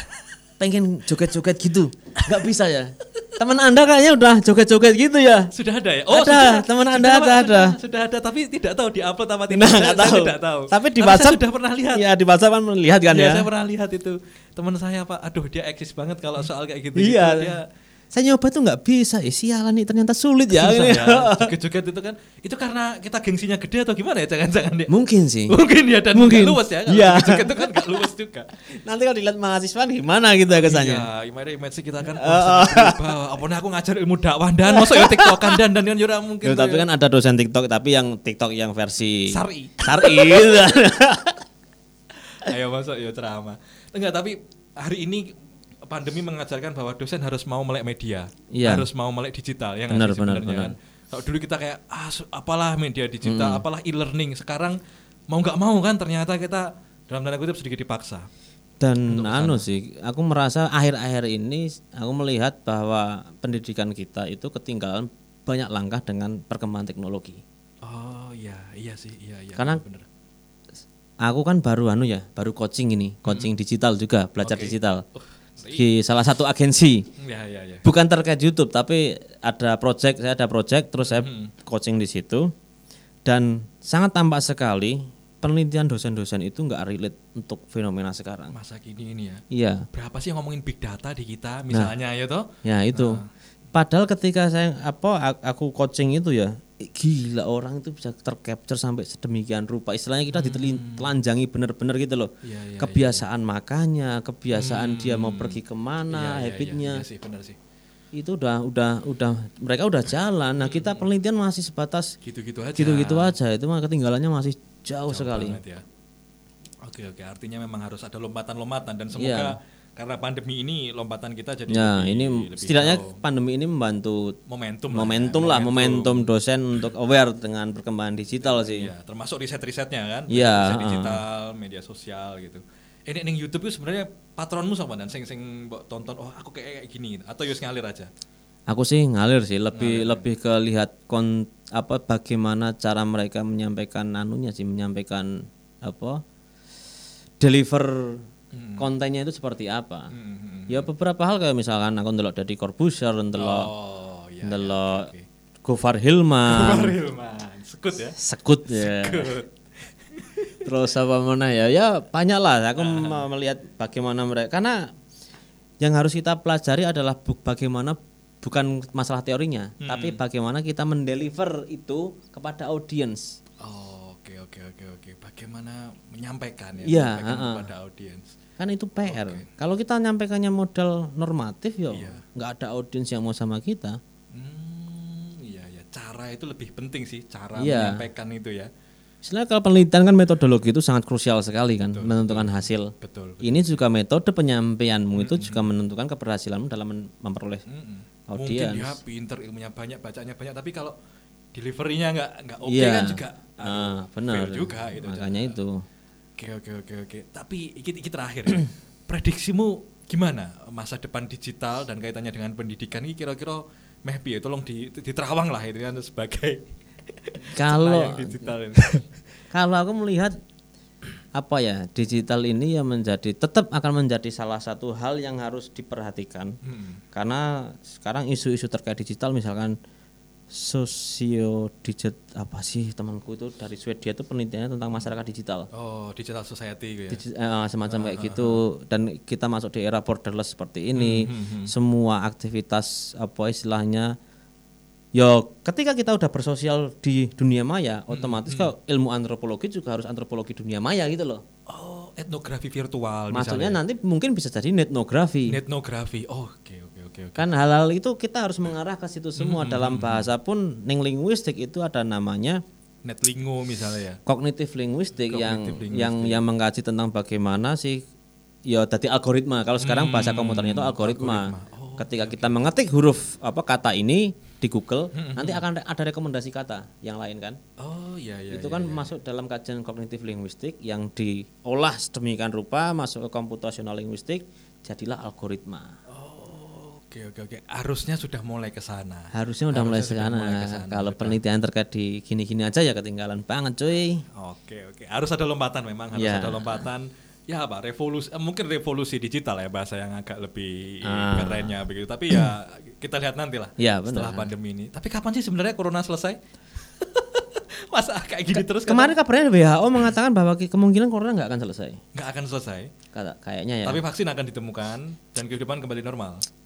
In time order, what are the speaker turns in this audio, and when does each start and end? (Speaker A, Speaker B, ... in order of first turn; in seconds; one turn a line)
Speaker A: 0.6-5.5
Speaker B: 5.5-12.0
Speaker A: 6.1-7.7
Speaker A: 9.5-11.4
Speaker A: 11.9-13.4
Speaker B: 13.1-17.6
Speaker A: 16.9-17.5
Speaker A: 18.1-21.5
Speaker B: 20.5-24.9
Speaker A: 24.9-25.6
Speaker B: 25.5-28.5
Speaker A: 26.1-28.1
Speaker A: 28.7-31.1
Speaker B: 30.5-36.9
Speaker A: 32.1-33.1
Speaker A: 34.6-35.6
Speaker A: 36.4-41.4
Speaker B: 39.3-40.6
Speaker B: 42.3-45.3
Speaker B: 45.8-54.8
Speaker A: 48.5-48.9
Speaker A: 49.9-50.7
Speaker A: 53.2-53.6
Speaker B: 55.3-58.3
Speaker A: 58.8-67.4
Speaker B: 59.1-59.6
Speaker B: 67.8-70.0
Speaker A: 69.5-69.8
Speaker A: 71.2-75.0
Speaker B: 74.4-75.9
Speaker A: 75.7-77.0
Speaker B: 77.2-77.8
Speaker A: 77.8-82.5
Speaker B: 81.0-81.5
Speaker A: 83.2-88.5
Speaker B: 88.5-93.3
Speaker A: 89.5-89.8
Speaker A: 92.6-93.2
Speaker A: 93.7-107.0
Speaker B: 100.3-101.1
Speaker B: 102.4-103.2
Speaker B: 104.5-105.6
Speaker B: 106.1-107.6
Speaker A: 108.1-112.2
Speaker B: 110.6-111.0
Speaker B: 112.2-113.3
Speaker A: 112.8-115.6
Speaker B: 115.1-115.8
Speaker B: 116.8-123.2
Speaker A: 119.1-119.5
Speaker A: 121.7-124.3
Speaker B: 124.5-126.3
Speaker A: 124.9-128.9
Speaker B: 128.4-138.1
Speaker A: 130.3-131.2
Speaker A: 138.7-146.2
Speaker B: 139.7-140.2
Speaker A: 147.4-148.2
Speaker B: 148.5-148.9
Speaker A: 148.8-150.1
Speaker B: 150.1-150.9
Speaker A: 150.7-153.7
Speaker B: 153.3-155.2
Speaker A: 154.4-155.1
Speaker A: 155.6-156.9
Speaker B: 156.5-159.5
Speaker A: 158.2-159.3
Speaker B: 160.1-160.6
Speaker A: 160.6-164.9
Speaker B: 162.8-163.2
Speaker A: 165.8-173.4
Speaker B: 169.8-170.2
Speaker B: 173.6-178.3
Speaker A: 176.8-177.7
Speaker A: 178.6-184.0
Speaker B: 179.1-179.5
Speaker B: 181.9-182.2
Speaker B: 184.3-188.7
Speaker A: 187.6-188.0
Speaker A: 189.2-192.9
Speaker B: 191.9-193.8
Speaker A: 193.4-197.6
Speaker B: 195.1-195.7
Speaker B: 197.7-200.9
Speaker A: 198.3-199.0
Speaker B: 201.5-205.5
Speaker A: 202.6-205.8
Speaker B: 206.4-219.0
Speaker A: 217.5-218.8
Speaker A: 219.5-220.3
Speaker A: 221.3-226.6
Speaker B: 226.6-227.0
Speaker A: 227.1-229.7
Speaker A: 230.5-235.7
Speaker B: 235.7-237.2
Speaker A: 237.1-244.1
Speaker B: 237.9-238.6
Speaker B: 240.9-241.7
Speaker A: 245.1-251.4
Speaker B: 248.1-248.7
Speaker B: 251.7-253.8
Speaker A: 253.3-255.6
Speaker B: 255.5-257.5
Speaker A: 257.4-262.6
Speaker B: 259.4-260.3
Speaker B: 263.0-264.2
Speaker A: 264.3-268.0
Speaker B: 265.1-266.4
Speaker A: 268.7-277.6
Speaker B: 269.8-272.5
Speaker B: 275.1-275.6
Speaker B: 277.8-279.1
Speaker A: 278.5-285.9
Speaker B: 286.1-291.4
Speaker A: 289.3-294.2
Speaker B: 294.3-309.1
Speaker A: 296.1-296.9
Speaker A: 301.0-301.7
Speaker A: 303.8-304.5
Speaker A: 308.5-312.0
Speaker B: 312.1-312.9
Speaker A: 313.1-314.0
Speaker B: 313.8-316.4